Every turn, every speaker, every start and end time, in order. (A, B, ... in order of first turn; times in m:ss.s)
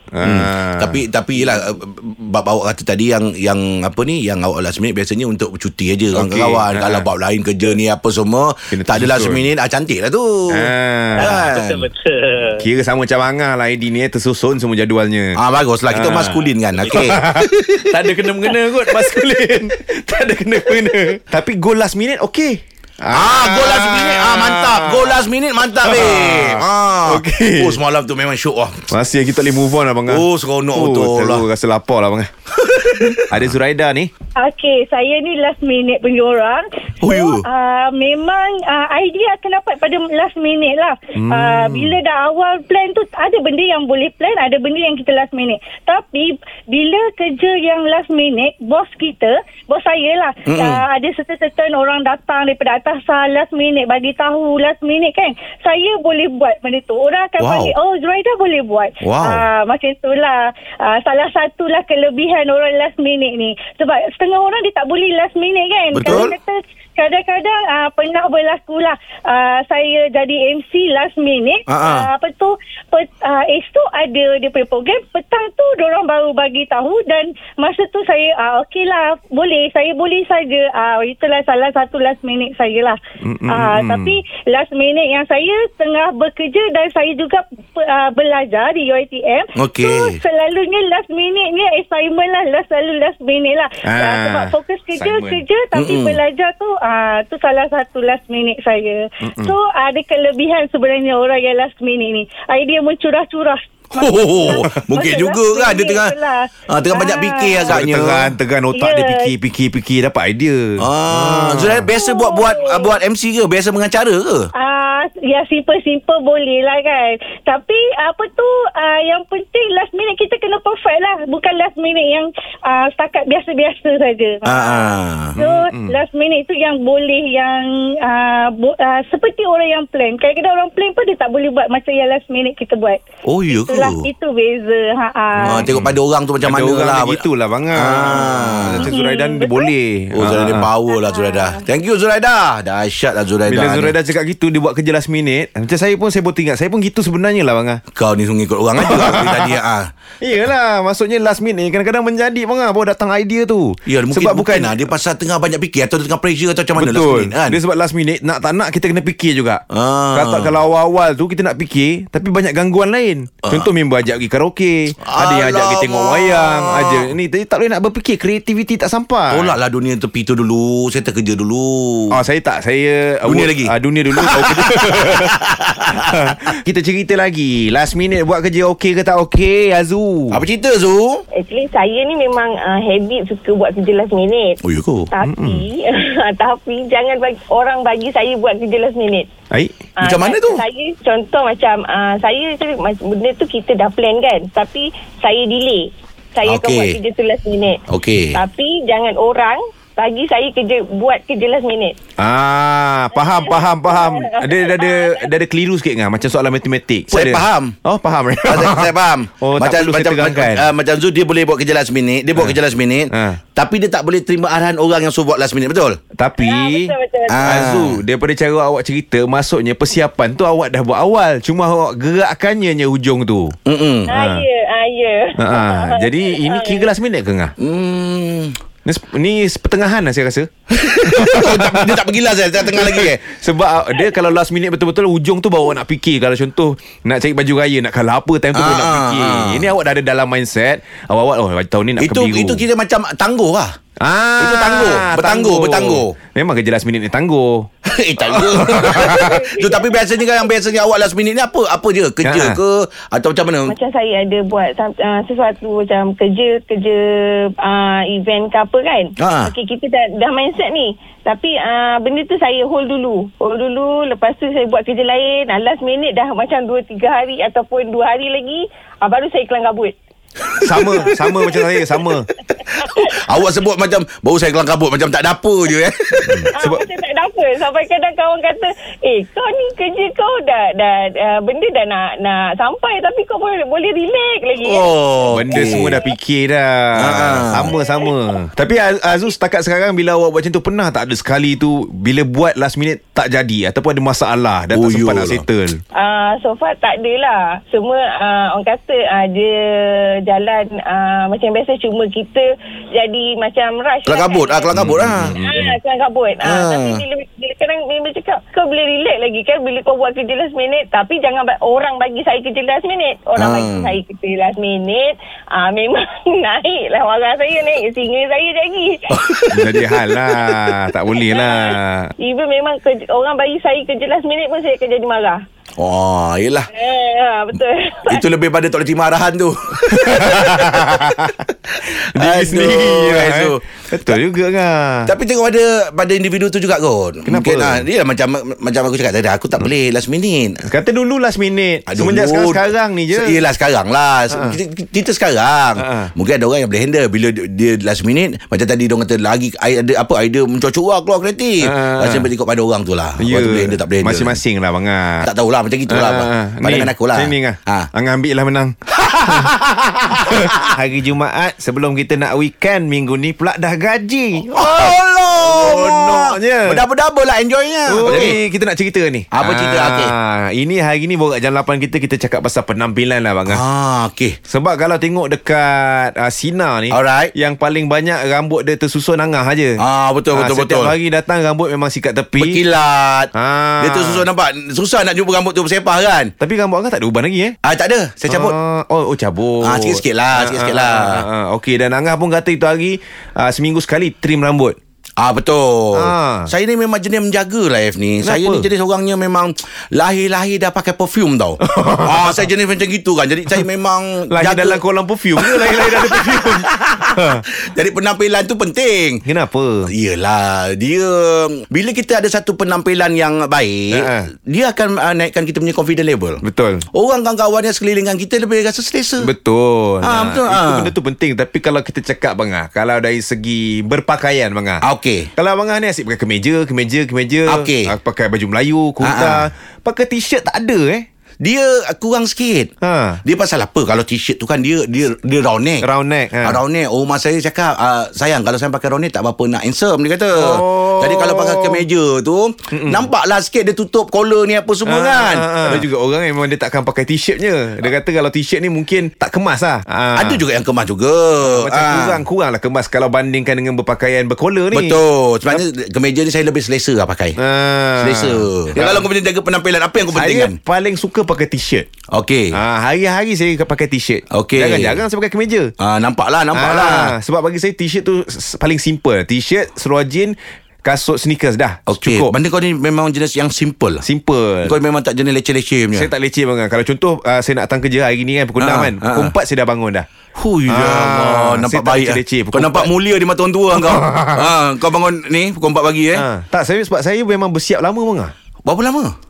0:00.1-0:01.0 A
0:00.2-0:11.8 B
0:06.1-0:07.0 A
0:08.7-0:09.4 A
0:10.5-0:11.4 A
0:11.2-0:12.6 C
0:12.6-0:15.4 A
0:15.4-0:17.9 B
0:15.9-0:16.4 A
0:16.8-0:17.2 C
0:16.9-0:25.2 A
0:23.1-0:28.9 B
0:25.8-0:27.8 A
0:28.9-0:32.3 A
0:30.1-0:31.4 B
0:32.6-0:33.3 B
0:33.2-0:34.1 A
0:34.4-1:47.8 D
0:37.0-0:37.4 B
0:41.2-0:42.0 A
0:50.5-0:50.8 B
0:57.4-0:57.7 B
0:59.0-0:59.4 B
1:05.9-1:06.4 B
1:11.7-1:12.1 B
1:23.2-1:24.2 A
1:29.6-1:30.2 B
1:33.8-1:35.4 A
1:35.8-1:36.2 B
1:39.2-1:39.6 A
1:44.0-1:46.2 B
1:46.7-1:48.3 B
1:47.7-1:51.9 A
1:48.8-1:49.3 D
1:50.8-1:54.5 B
1:51.9-1:52.9 D
1:54.6-2:15.7 D
2:04.4-2:05.4 B
2:05.4-2:06.0 A
2:13.3-2:14.0 B
2:15.4-2:20.7 A
2:15.4-2:17.2 B
2:17.8-2:18.9 B
2:18.8-2:19.7 D
2:20.1-2:23.9 B
2:20.9-2:21.6 D
2:23.5-2:27.8 A
2:28.0-2:29.9 B
2:28.8-2:29.6 A
2:30.2-2:34.8 A
2:33.9-2:37.6 B
2:36.8-2:49.6 A
2:39.7-2:40.5 B
2:45.0-2:47.1 B
2:49.3-2:52.2 B
2:52.1-2:55.4 A
2:53.3-2:56.4 B
2:56.1-3:00.4 A
3:00.3-3:01.2 B
3:01.3-3:04.6 E
3:04.6-3:05.1 B
3:05.1-3:09.3 E
3:05.2-3:05.6 A
3:09.5-3:09.8 A
3:10.0-3:17.8 E
3:10.0-3:10.6 B
3:16.4-3:17.0 B
3:17.9-3:18.4 B
3:18.3-3:22.0 E
3:22.2-3:30.6 A
3:23.2-3:25.3 E
3:27.1-3:27.8 B
3:28.5-3:36.0 B
3:33.1-3:33.4 A
3:36.2-3:43.6 A
3:36.4-3:37.6 E
3:37.3-3:38.0 B
3:43.7-3:44.1 B
3:44.1-3:46.8 E
3:44.1-3:44.4 A
3:45.4-3:47.5 A
3:47.6-3:48.6 B
3:48.9-3:50.5 A
3:50.7-3:53.2 B
3:51.0-3:52.1 A
3:52.6-4:02.6 A
3:58.5-3:59.7 B
4:02.0-4:03.8 B
4:04.0-4:09.5 A
4:04.4-4:06.1 B
4:07.8-4:13.8 B
4:09.0-4:10.1 E
4:12.2-4:12.6 A
4:13.7-4:30.0 E
4:19.2-4:19.5 B
4:30.6-4:32.3 A
4:30.8-4:31.7 E
4:32.8-4:36.5 B
4:32.8-4:33.2 E
4:36.3-4:36.8 A
4:36.5-4:45.2 E
4:44.6-4:46.0 B
4:45.3-4:55.8 A
4:47.0-4:47.8 B
4:54.7-4:55.4 B
4:56.0-5:04.8 E
5:04.1-5:05.4 B
5:04.7-5:05.8 A
5:05.4-5:19.2 E
5:06.4-5:07.0 B
5:13.4-5:14.0 B
5:19.1-5:20.5 B
5:19.5-5:22.1 A
5:21.3-5:25.4 E
5:25.8-5:26.7 B
5:26.7-5:28.2 E
5:28.1-5:31.2 B
5:29.9-5:31.4 A
5:32.1-5:33.6 B
5:32.2-5:35.1 A
5:35.1-5:40.6 B
5:37.3-5:37.8 A
5:40.7-5:43.4 A
5:41.9-5:54.4 B
5:44.3-5:44.6 A
5:45.8-5:46.1 A
5:51.6-5:52.3 A
5:53.2-5:55.3 A
5:55.2-5:57.9 B
5:55.9-5:59.5 A
5:58.9-6:00.7 B
6:00.2-6:06.8 A
6:04.5-6:08.4 B
6:07.9-6:13.6 A
6:09.3-6:10.1 B
6:13.5-6:14.4 B
6:14.5-6:19.8 A
6:16.9-6:17.3 B
6:19.8-6:20.9 B
6:20.3-6:22.6 A
6:22.4-6:26.3 B
6:23.4-6:24.3 A
6:26.4-6:27.6 A
6:27.6-6:28.6 B
6:28.3-6:34.8 A
6:29.6-6:31.2 B
6:35.2-6:44.8 B
6:36.0-6:36.5 A
6:38.2-6:38.7 A
6:41.6-6:42.5 A
6:44.3-6:47.4 A
6:45.4-6:49.2 B
6:49.3-6:49.9 A
6:49.9-6:56.4 B
6:53.9-6:54.3 A
6:56.4-6:56.9 A
6:56.9-6:59.3 B
6:59.2-7:04.8 A
7:00.0-7:00.9 B
7:04.8-7:05.3 B
7:05.4-7:11.1 A
7:07.5-7:07.9 B
7:09.0-7:09.5 B
7:11.4-7:12.7 B
7:12.8-7:13.2 A
7:13.2-7:15.9 B
7:15.8-7:16.6 A
7:16.4-7:25.8 B
7:20.4-7:21.8 A
7:22.7-7:23.1 A
7:24.9-7:30.4 A
7:30.2-7:32.2 B
7:31.4-7:35.0 A
7:34.7-7:37.4 B
7:37.4-7:39.1 A
7:38.0-7:40.6 B
7:40.1-7:41.9 A
7:42.1-7:42.6 B
7:42.5-7:45.7 A
7:44.3-7:45.0 B
7:45.8-7:47.1 B
7:46.6-7:52.3 A
7:51.9-7:54.0 B
7:54.0-7:54.8 A
7:54.6-7:56.1 B
7:55.9-8:00.1 A
7:58.6-7:59.3 B
8:00.4-8:06.3 B
8:00.7-8:02.9 A
8:03.7-8:04.5 A
8:06.2-8:08.3 A
8:08.6-8:09.2 B